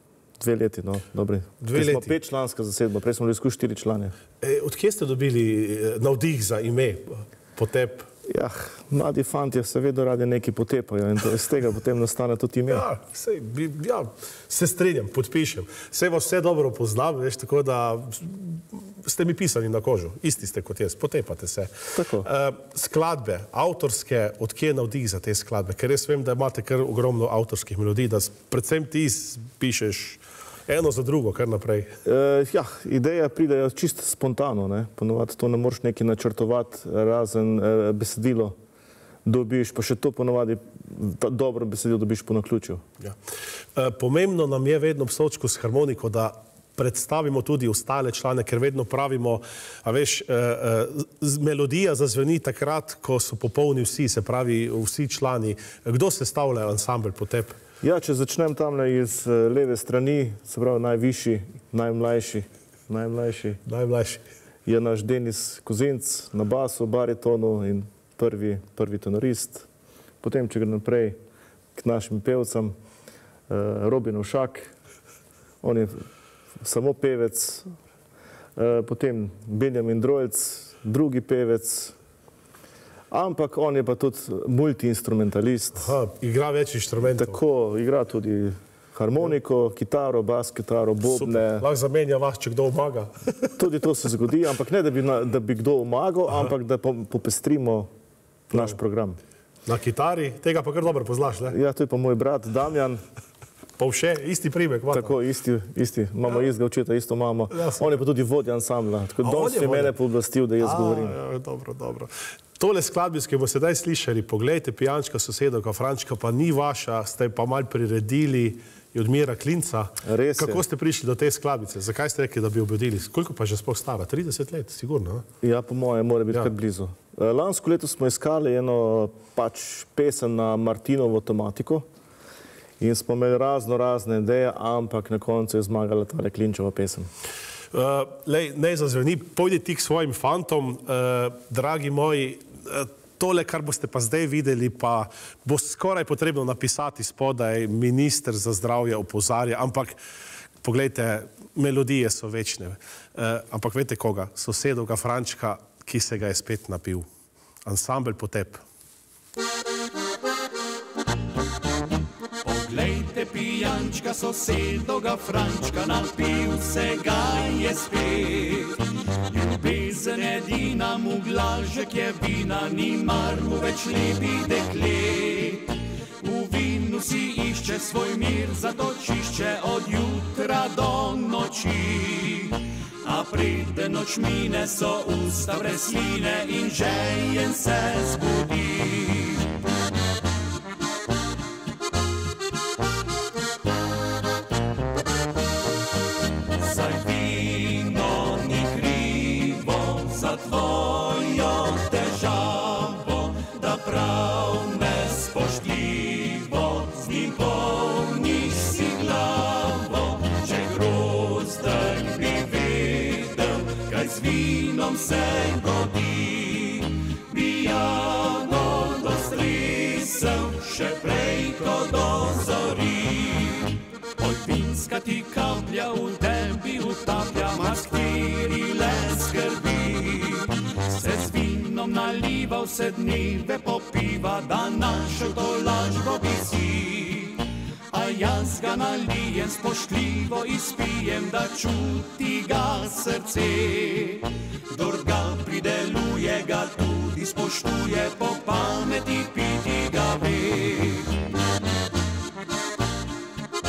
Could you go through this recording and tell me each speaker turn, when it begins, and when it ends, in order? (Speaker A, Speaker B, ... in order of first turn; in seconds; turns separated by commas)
Speaker A: 0.4-4.1, Speaker B: 1.6-2.1, Speaker B: 4.4-8.1, Speaker A: 8.3-12.8, Speaker B: 12.7-31.9, Speaker A: 21.9-22.3, Speaker A: 32.0-38.6, Speaker A: 39.2-42.8, Speaker B: 43.8-57.6, Speaker A: 57.8-63.6, Speaker B: 63.6-64.2, Speaker A: 64.7-69.7, Speaker A: 70.2-71.2, Speaker A: 71.7-72.7, Speaker A: 73.5-74.7, Speaker A: 75.6-76.0, Speaker A: 76.6-77.7, Speaker A: 78.5-82.0, Speaker A: 83.1-85.9, Speaker B: 85.8-87.4, Speaker A: 87.0-91.7, Speaker B: 91.0-93.5, Speaker A: 93.6-97.9, Speaker A: 98.5-99.2, Speaker B: 98.5-98.8, Speaker B: 99.7-101.6, Speaker A: 101.5-103.0, Speaker B: 103.8-105.2, Speaker A: 104.9-111.2, Speaker B: 107.5-107.8, Speaker B: 109.2-109.9, Speaker B: 110.6-125.2, Speaker A: 120.0-120.6, Speaker A: 125.4-131.8, Speaker A: 132.8-137.1, Speaker B: 137.7-150.0, Speaker B: 150.6-157.1, Speaker B: 157.7-158.6, Speaker C: 162.4-189.4, Speaker C: 196.6-251.2